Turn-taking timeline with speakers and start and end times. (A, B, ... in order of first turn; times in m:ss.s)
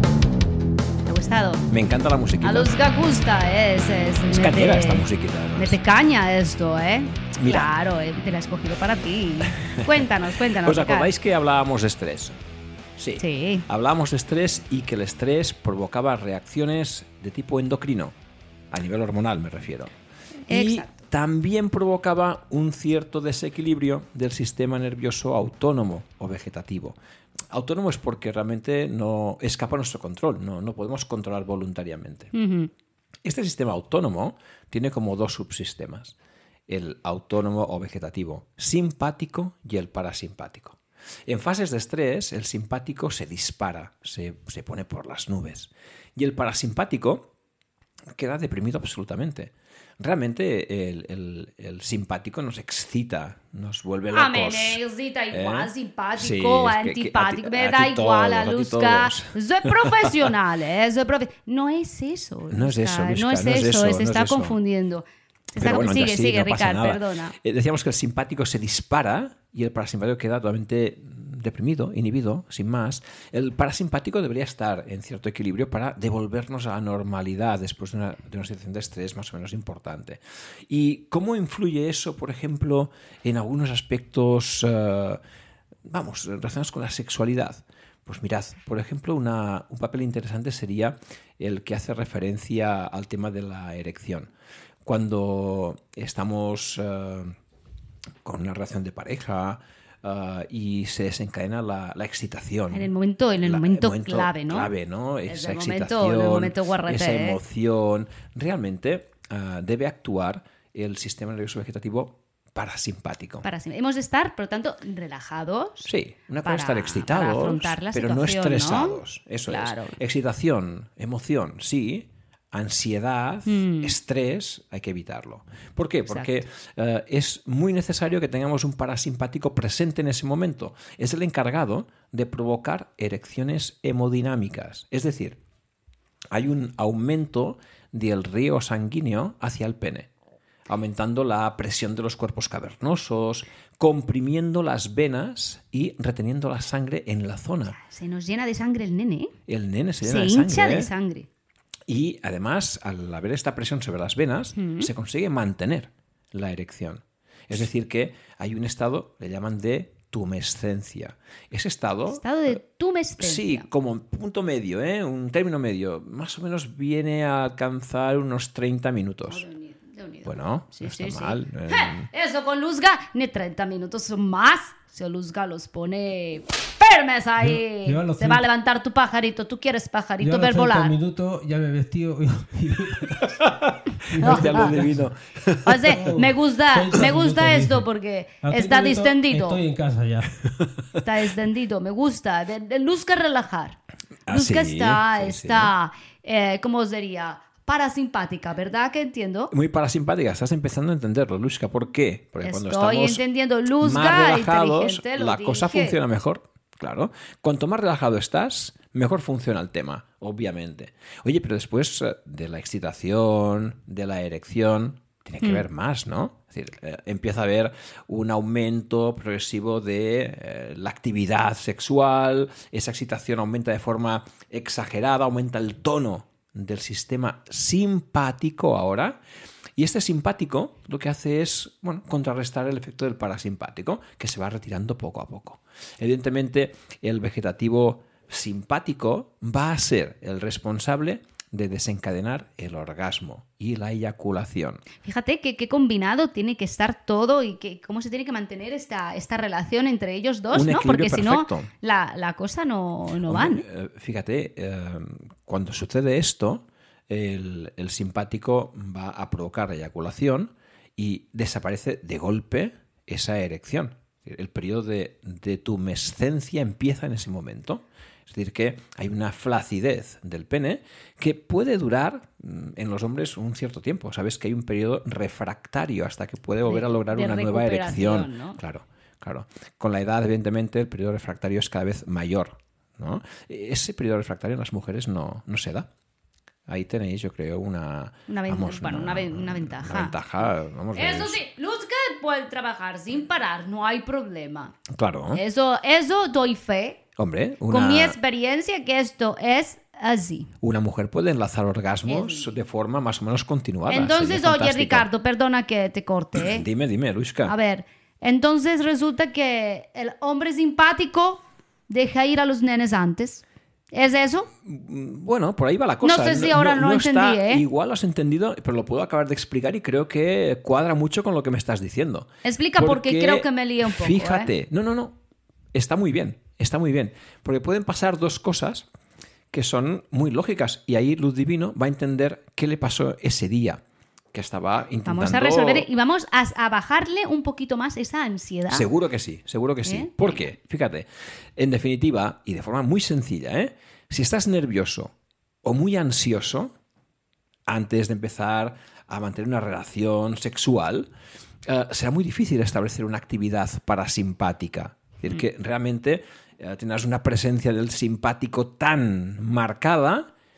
0:01.1-0:01.7 A
0:01.7-0:02.7 B
0:02.4-0:05.0 A
0:04.3-0:05.8 B
0:05.6-0:11.1 A
0:07.4-0:07.7 B
0:09.6-0:10.1 B
0:10.6-0:12.4 B
0:13.0-0:18.1 B
0:13.2-0:13.6 A
0:18.7-0:19.9 B
0:20.5-0:21.0 A
0:20.5-0:27.0 B
0:27.5-0:32.3 B
0:32.3-0:32.7 A
0:33.2-0:36.2 B
0:36.7-0:47.3 B
0:48.2-0:54.8 B
0:54.1-1:07.4 A
0:55.3-1:00.3 B
1:02.5-1:04.6 B
1:05.6-1:25.2 B
1:25.9-1:34.3 B
1:34.8-1:37.4 B
1:38.2-1:42.9 B
1:42.7-1:44.7 A
1:43.4-1:53.4 B
1:45.3-1:47.4 A
1:53.4-1:55.9 A
1:55.8-2:15.4 B
1:56.4-2:00.0 A
2:03.5-2:04.0 A
2:06.1-2:06.3 A
2:16.3-2:20.1 B
2:20.7-2:27.8 B
2:27.7-2:29.3 A
2:29.5-2:30.9 B
2:30.0-2:31.3 A
2:31.9-2:42.6 B
2:34.6-2:34.9 A
2:42.1-2:43.7 A
2:43.2-2:49.4 B
2:49.3-3:01.0 A
2:50.2-2:52.1 B
2:57.4-2:58.5 C
3:00.2-3:03.3 C
3:03.2-3:06.1 B
3:04.1-3:05.1 C
3:04.2-3:04.8 A
3:05.6-3:09.6 A
3:05.9-3:07.9 C
3:08.4-3:10.3 C
3:11.0-3:13.8 A
3:14.3-3:15.7 B
3:14.3-3:19.5 A
3:19.5-3:23.2 B
3:22.4-3:26.0 A
3:23.8-3:49.2 B
3:49.8-4:04.8 B
4:05.0-4:13.6 A
4:10.5-4:11.7 B
4:13.3-4:45.9 B
4:36.7-4:38.6 A
4:46.7-4:51.4 B
4:48.3-4:50.2 A
4:51.0-4:54.8 A
4:54.9-4:55.4 B
4:55.3-4:57.0 A
4:57.2-4:58.2 B
4:57.7-5:00.5 A
5:00.6-5:05.1 B
5:02.1-5:02.5 A
5:03.9-5:06.7 A
5:06.4-5:07.5 B
5:07.4-5:14.5 A
5:14.6-5:25.2 B
5:16.0-5:17.6 A
5:22.4-5:24.5 A
5:25.7-5:28.9 B
5:29.5-5:33.8 B
5:34.3-5:35.9 B
5:35.0-5:38.9 A
5:38.7-5:41.1 B
5:39.8-5:40.1 A
5:41.6-5:45.1 B
5:45.6-5:46.7 B
5:47.7-5:51.1 B
5:51.7-6:00.3 B